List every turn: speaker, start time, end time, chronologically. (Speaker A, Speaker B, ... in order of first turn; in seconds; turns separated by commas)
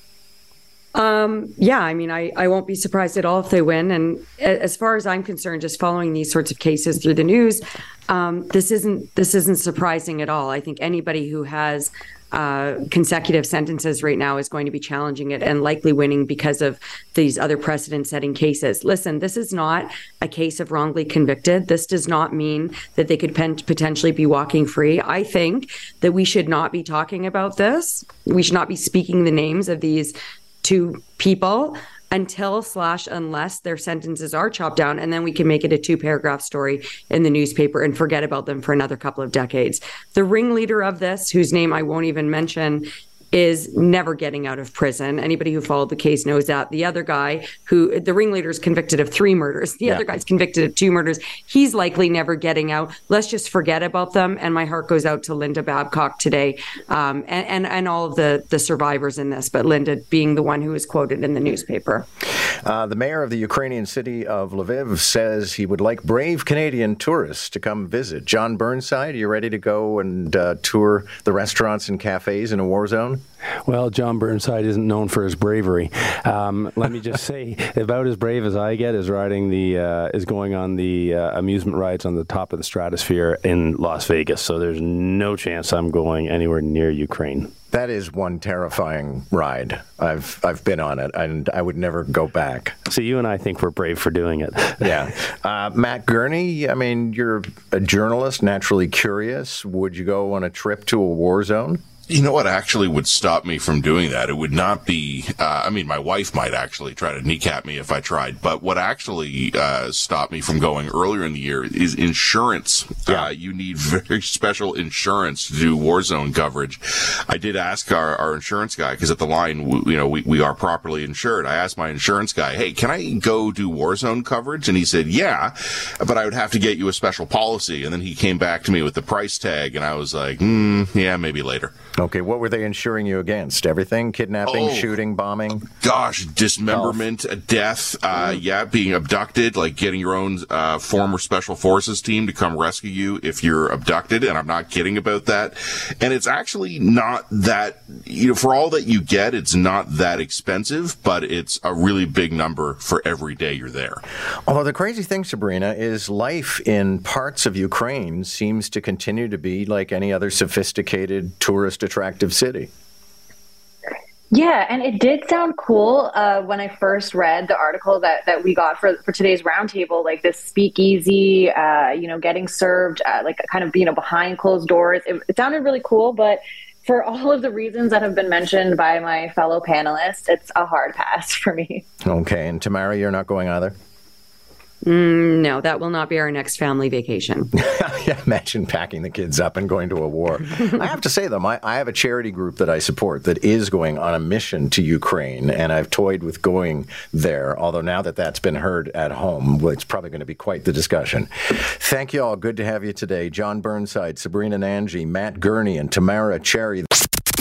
Speaker A: 0.9-62.0, Speaker B: 62.6-73.2, Speaker C: 73.7-87.5, Speaker B: 87.7-92.7, Speaker C: 92.9-94.9, Speaker B: 94.8-101.8, Speaker D: 102.1-131.7, Speaker B: 132.0-135.7, Speaker D: 134.5-134.9, Speaker D: 135.8-154.0, Speaker B: 136.7-137.0, Speaker B: 154.5-162.7, Speaker E: 164.3-181.8, Speaker B: 182.0-183.7, Speaker A: 184.8-187.5, Speaker B: 187.6-206.9